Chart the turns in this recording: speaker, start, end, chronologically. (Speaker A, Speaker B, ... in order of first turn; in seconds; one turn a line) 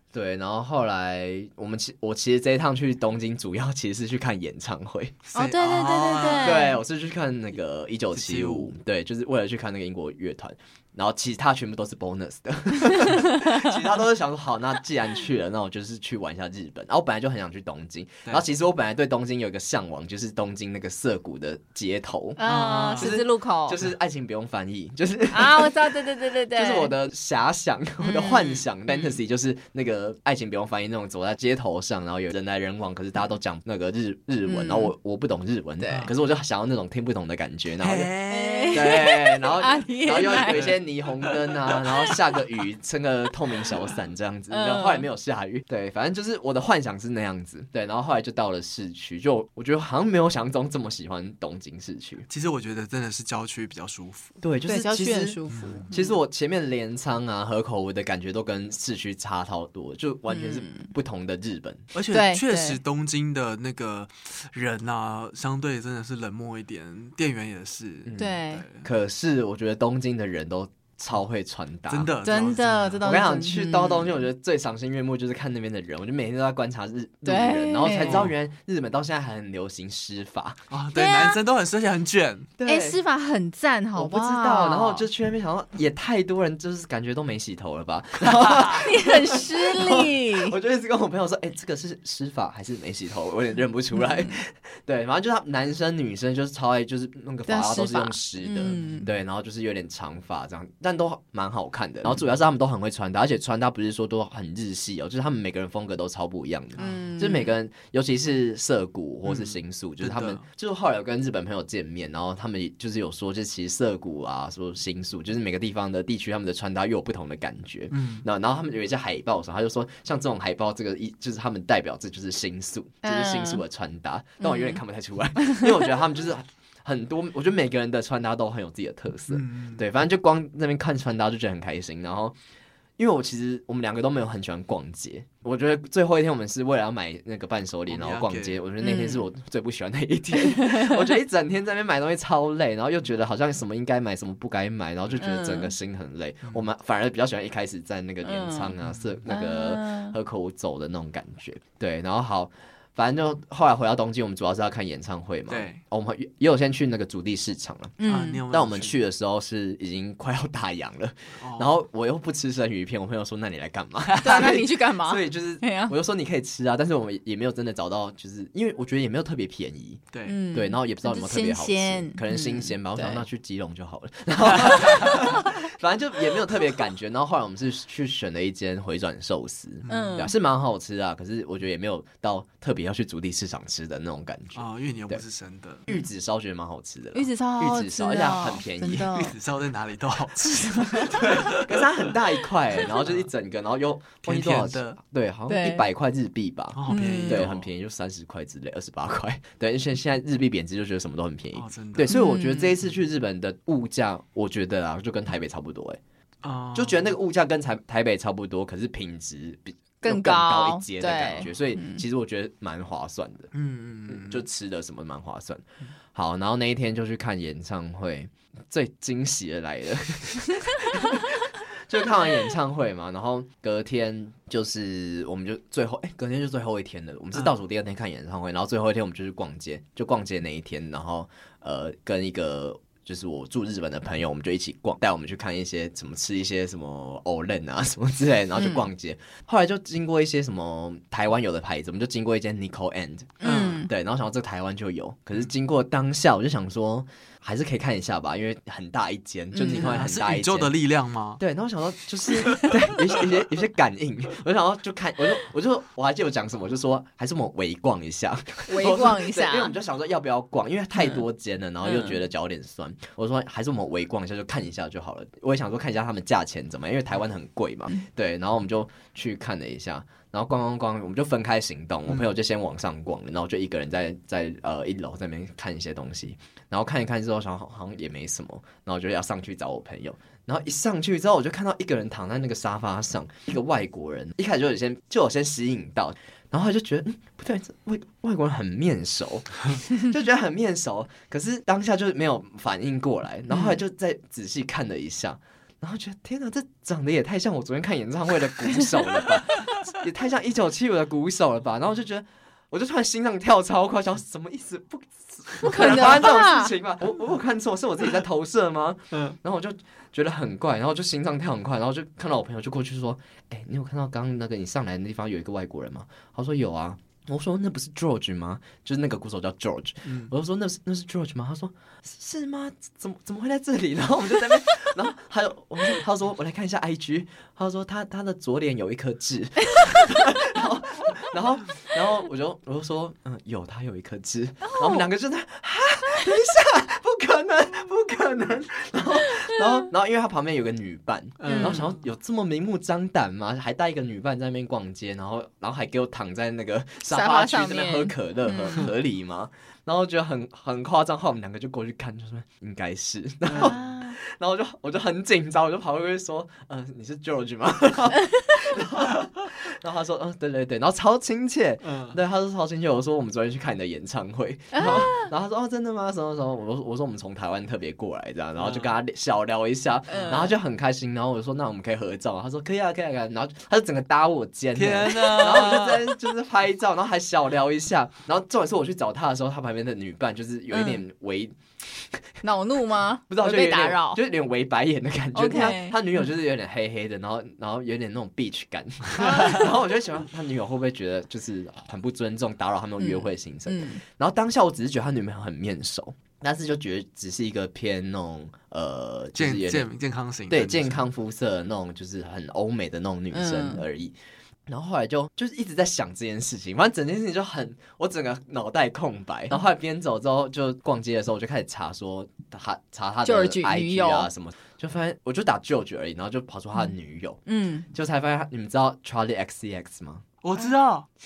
Speaker A: 0.1-5.2
Speaker B: 5.3-6.6
Speaker C: 5.3-6.8
Speaker A: 6.4-22.4
Speaker B: 8.1-8.7
Speaker C: 22.4-23.8
Speaker B: 22.4-23.2
Speaker A: 22.9-38.1
Speaker C: 25.3-26.9
Speaker C: 28.0-29.1
Speaker C: 34.5-34.9
Speaker C: 35.8-36.1
Speaker B: 37.8-39.1
Speaker C: 38.3-40.7
Speaker A: 38.7-52.2
Speaker B: 40.4-41.8
Speaker C: 44.5-45.0
Speaker B: 52.3-54.4
Speaker A: 54.4-61.9
Speaker C: 54.7-56.1
Speaker B: 55.5-55.8
Speaker C: 60.3-60.9
Speaker B: 61.9-68.8
Speaker C: 62.1-62.8
Speaker A: 68.0-72.1
Speaker C: 68.2-68.6
Speaker B: 71.9-73.1
Speaker C: 72.2-74.2
Speaker A: 73.0-80.6
Speaker C: 77.2-78.3
Speaker B: 77.9-78.3
Speaker B: 80.7-82.5
Speaker C: 80.9-81.4
Speaker A: 82.6-83.0
Speaker C: 82.6-85.0
Speaker A: 84.0-132.3
Speaker C: 88.6-90.5
Speaker C: 97.5-99.1
Speaker B: 106.8-107.0
Speaker C: 106.8-107.5
Speaker B: 109.2-110.4
Speaker B: 117.9-118.2
Speaker C: 123.0-123.6
Speaker C: 124.4-124.8
Speaker B: 129.3-129.8
Speaker A: 133.0-157.9
Speaker B: 137.9-138.6
Speaker C: 138.8-139.2
Speaker C: 140.3-141.1
Speaker C: 145.2-145.7
Speaker C: 148.2-148.7
Speaker C: 149.3-150.1
Speaker B: 155.5-155.8
Speaker C: 158.0-158.4
Speaker B: 158.1-159.0
Speaker A: 158.5-185.2
Speaker B: 161.4-161.7
Speaker C: 164.2-165.9
Speaker B: 170.1-170.4
Speaker C: 170.2-173.2
Speaker B: 179.8-180.2
Speaker C: 179.9-180.3
Speaker B: 184.5-185.8
Speaker A: 185.9-189.3
Speaker C: 187.1-189.3
Speaker B: 189.1-192.2
Speaker C: 190.4-191.1
Speaker A: 191.1-206.0
Speaker B: 192.8-193.3
Speaker B: 194.2-195.0
Speaker C: 195.5-195.8
Speaker B: 196.7-197.7
Speaker C: 196.9-197.4
Speaker B: 201.5-202.1
Speaker C: 202.1-202.7
Speaker B: 206.4-207.1
Speaker A: 206.7-213.5
Speaker C: 210.0-212.0
Speaker B: 213.5-214.4
Speaker A: 214.1-215.6
Speaker A: 216.1-250.7
Speaker C: 238.6-238.8
Speaker C: 243.4-243.9
Speaker B: 243.4-243.8
Speaker C: 249.5-250.0
Speaker B: 249.7-251.4
Speaker A: 251.4-382.2
Speaker C: 258.7-259.7
Speaker C: 261.8-262.1
Speaker C: 305.6-306.7
Speaker B: 320.1-320.3
Speaker C: 334.6-335.0
Speaker B: 341.4-341.9
Speaker C: 341.4-341.9
Speaker C: 347.1-348.8
Speaker C: 353.5-354.2
Speaker B: 361.8-362.2
Speaker C: 364.7-365.3
Speaker B: 368.6-368.9
Speaker C: 370.1-370.5
Speaker B: 370.1-370.4
Speaker B: 374.7-376.2
Speaker C: 380.7-381.0
Speaker C: 382.4-384.2
Speaker A: 383.3-399.9
Speaker C: 385.3-386.0
Speaker C: 389.2-389.7
Speaker C: 393.0-394.0
Speaker B: 399.3-401.0
Speaker A: 400.5-404.1
Speaker C: 403.3-403.8
Speaker A: 404.7-420.2
Speaker C: 413.2-414.3
Speaker C: 417.4-417.9
Speaker B: 420.4-421.1